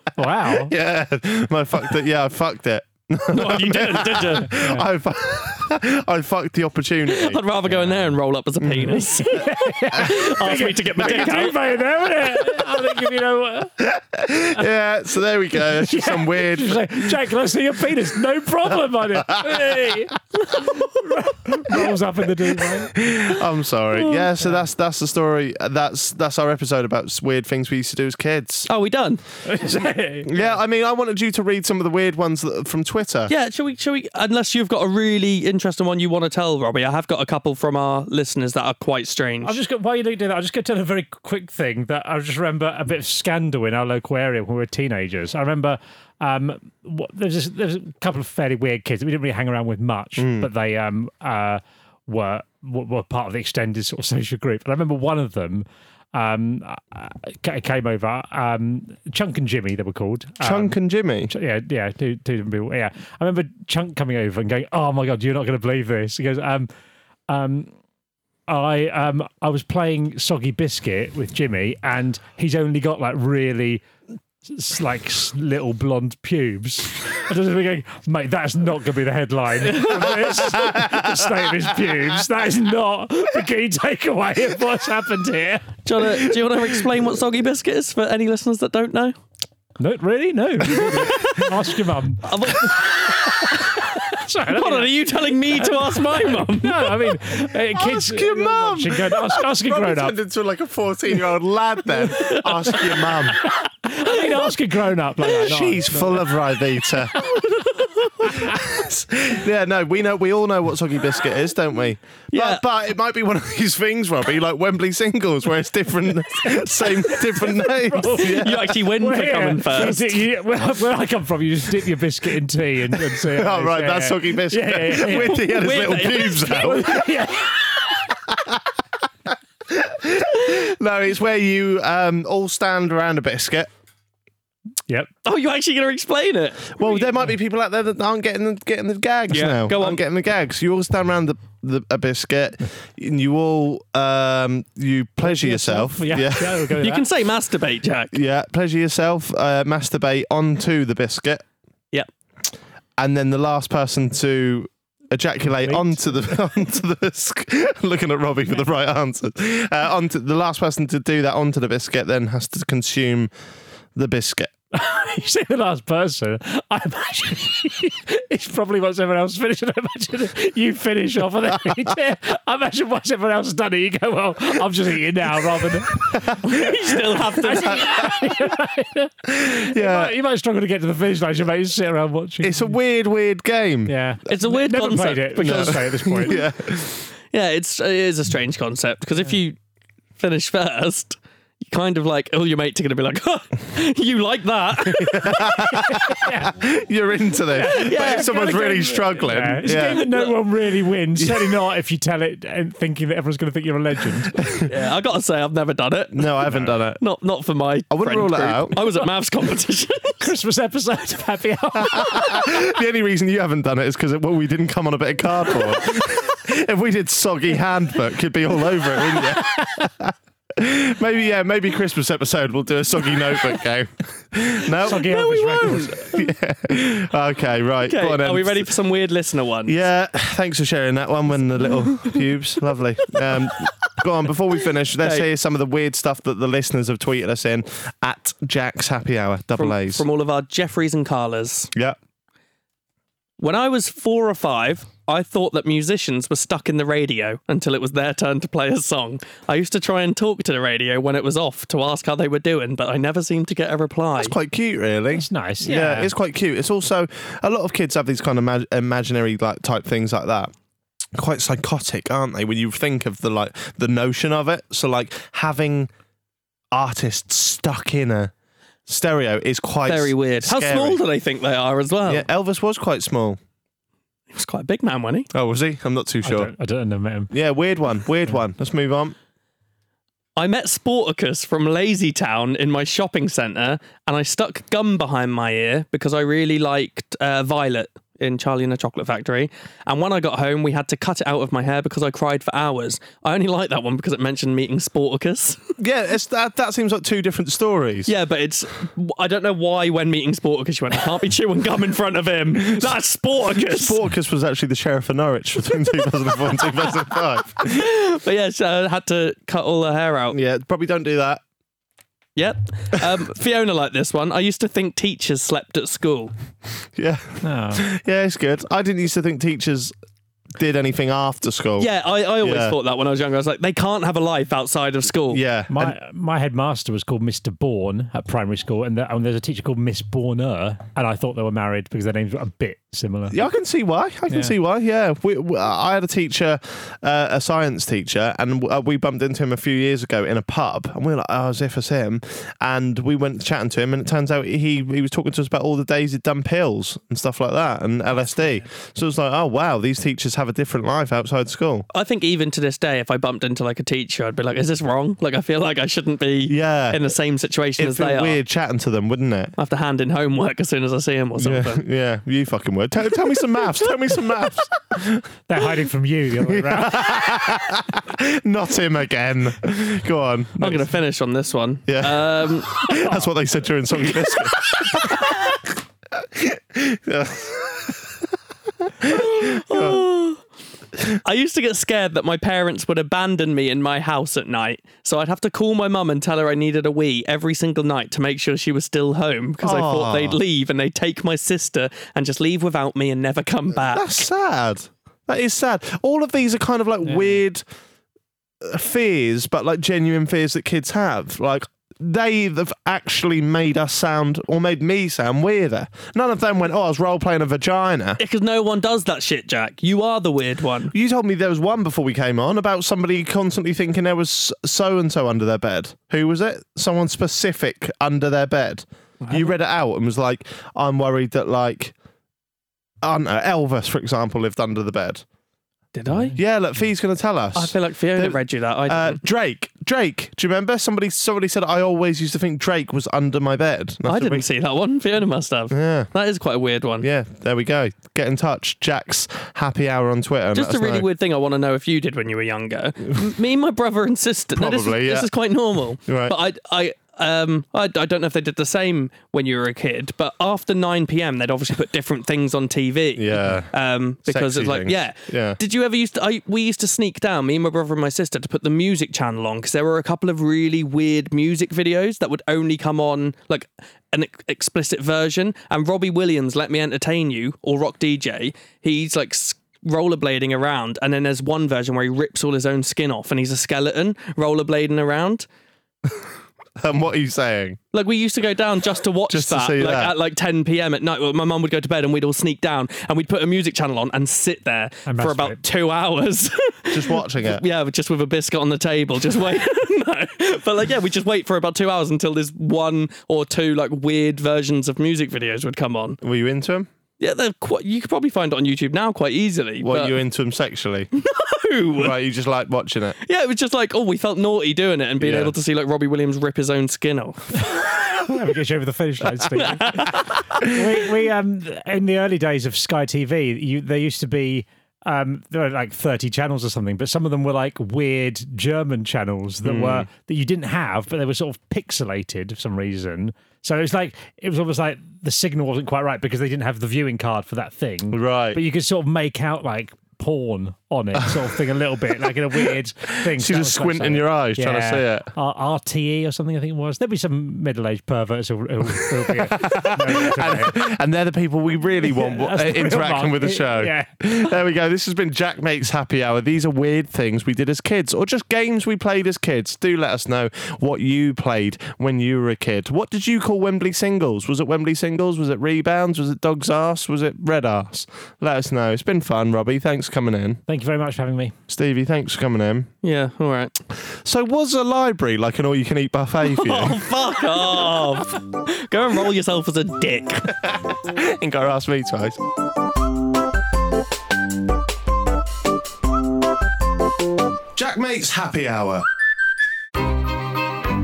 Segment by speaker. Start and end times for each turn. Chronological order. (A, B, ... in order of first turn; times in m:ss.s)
0:00.2-0:00.7 A
0:00.5-0:07.4 B
0:03.3-0:04.5 C
0:04.5-0:04.9 A
0:07.1-0:11.5 C
0:07.7-0:08.2 A
0:08.6-0:09.0 B
0:09.1-0:13.8 A
0:13.8-0:17.3 B
0:15.6-0:23.0 A
0:19.2-0:19.6 B
0:20.4-0:20.7 C
0:22.9-0:28.7 B
0:28.7-0:29.2 C
0:29.4-0:30.6 A
0:29.6-0:33.3 B
0:33.3-0:39.6 C
0:39.4-1:00.8 A
0:50.2-0:50.5 B
1:00.4-1:01.3 B
1:01.3-1:06.7 A
1:07.3-1:07.7 A
1:08.5-1:13.8 A
1:14.5-1:25.8 A
1:19.6-1:20.4 C
1:20.5-1:21.7 B
1:25.8-1:29.1 C
1:29.8-1:34.9 A
1:30.8-1:31.3 C
1:32.2-1:33.8 C
1:34.5-1:36.9 C
1:35.6-1:40.1 A
1:37.7-1:43.4 B
1:42.2-1:42.8 C
1:43.4-1:46.3 A
1:45.3-1:47.1 B
1:47.2-1:48.4 C
1:48.2-1:58.7 B
1:48.2-1:48.5 A
1:52.3-1:52.6 C
1:56.4-2:05.6 A
1:58.2-2:00.2 C
2:03.1-2:07.1 B
2:05.1-2:06.8 C
2:06.5-2:08.1 A
2:08.1-2:08.6 B
2:09.7-2:13.7 B
2:15.2-2:16.8 C
2:16.8-2:26.7 B
2:19.3-2:20.0 C
2:25.2-2:27.1 A
2:26.8-2:28.1 C
2:28.1-2:31.4 B
2:33.0-2:43.3 B
2:35.6-2:36.3 A
2:44.0-2:44.5 B
2:44.7-2:56.3 A
2:51.5-2:51.8 B
2:56.1-2:56.5 B
2:56.4-2:58.1 C
2:57.4-3:02.8 A
2:57.4-2:58.2 B
2:59.3-3:00.1 B
3:02.4-3:03.9 B
3:03.8-3:06.4 A
3:04.3-3:06.4 C
3:05.4-3:07.1 B
3:07.3-3:09.6 C
3:10.2-3:11.2 C
3:11.7-3:15.6 C
3:14.9-3:20.1 B
3:15.9-3:16.5 A
3:17.5-3:24.4 A
3:17.6-3:18.7 C
3:19.7-3:20.4 C
3:21.2-3:21.5 B
3:24.7-3:26.3 C
3:26.1-3:27.0 B
3:26.5-3:26.7 A
3:27.0-3:30.3 C
3:27.9-3:28.8 B
3:30.2-3:32.5 A
3:31.8-3:45.1 B
3:44.8-3:46.0 C
3:44.8-3:45.9 A
3:45.6-3:48.7 B
3:47.8-3:49.8 C
3:49.6-4:00.0 B
3:55.0-3:55.3 C
3:59.6-4:01.7 C
4:03.4-4:14.3 C
4:14.2-4:20.5 B
4:15.1-4:16.1 A
4:15.6-4:15.9 C
4:21.2-4:25.9 B
4:26.7-4:28.3 B
4:28.9-4:31.0 B
4:29.8-4:32.2 C
4:32.0-4:33.4 B
4:34.3-4:35.3 C
4:35.3-4:36.5 B
4:36.2-4:37.3 A
4:37.3-4:39.1 B
4:40.4-4:55.6 C
4:55.8-4:58.1 B
4:58.1-5:04.0 C
5:02.6-5:02.9 B
5:03.5-5:07.8 B
5:07.6-5:10.4 C
5:10.3-5:11.4 B
5:12.4-5:16.3 C
5:17.0-5:19.9 B
5:17.4-5:17.8 A
5:20.5-5:21.9 B
5:21.8-5:25.4 C
5:22.4-5:22.8 B
5:25.3-5:25.9 B
5:25.7-5:33.4 A
5:33.3-5:51.8 B
5:34.3-5:34.5 A
5:48.2-5:48.6 A
5:51.9-5:58.4 C
5:56.5-5:57.0 B
5:57.8-5:59.5 B
5:59.6-6:01.8 C
6:01.4-6:05.2 B
6:05.5-6:07.3 A
6:06.4-6:10.9 B
6:10.6-6:12.8 C
6:11.9-6:15.6 B
6:12.9-6:13.3 A
6:16.1-6:18.1 B
6:19.0-6:20.0 B
6:19.1-6:20.4 C
6:21.2-6:34.3 C
6:29.6-6:30.4 B
6:33.9-6:37.6 B
6:37.0-6:37.4 A
6:38.6-6:48.2 B
6:48.2-6:50.9 C
6:50.9-7:01.9 B
7:03.0-7:05.2 B
7:05.9-7:06.4 C
7:06.1-7:06.4 A
7:06.3-7:14.4 B
7:07.6-7:09.2 C
7:14.0-7:17.1 C
7:15.7-7:16.1 B
7:17.0-7:21.0 B
7:20.5-7:55.4 C
7:24.5-7:25.3 B
7:26.0-7:26.4 B
7:33.1-7:33.7 B
7:34.2-7:35.6 B
7:56.8-7:57.8 B
7:57.9-8:16.2 C
7:59.3-8:00.1 B
8:05.1-8:05.6 A
8:06.9-8:07.6 B
8:16.2-8:16.9 B
8:17.2-8:20.2 C
8:19.8-8:21.1 B
8:21.2-8:22.2 C
8:22.0-8:23.2 B
8:23.2-8:27.6 C
8:25.2-8:25.5 B
8:28.3-9:00.8 A
8:29.5-8:30.4 C
8:39.6-8:40.1 B
8:48.1-8:48.6 B
8:53.2-8:55.3 B
8:59.2-9:20.6 B
9:02.0-9:04.1 A
9:20.7-9:21.5 A
9:21.7-9:22.9 B
9:23.0-9:23.7 C
9:24.1-9:27.0 B
9:26.5-9:30.5 C
9:30.6-9:32.4 B
9:37.7-9:39.0 B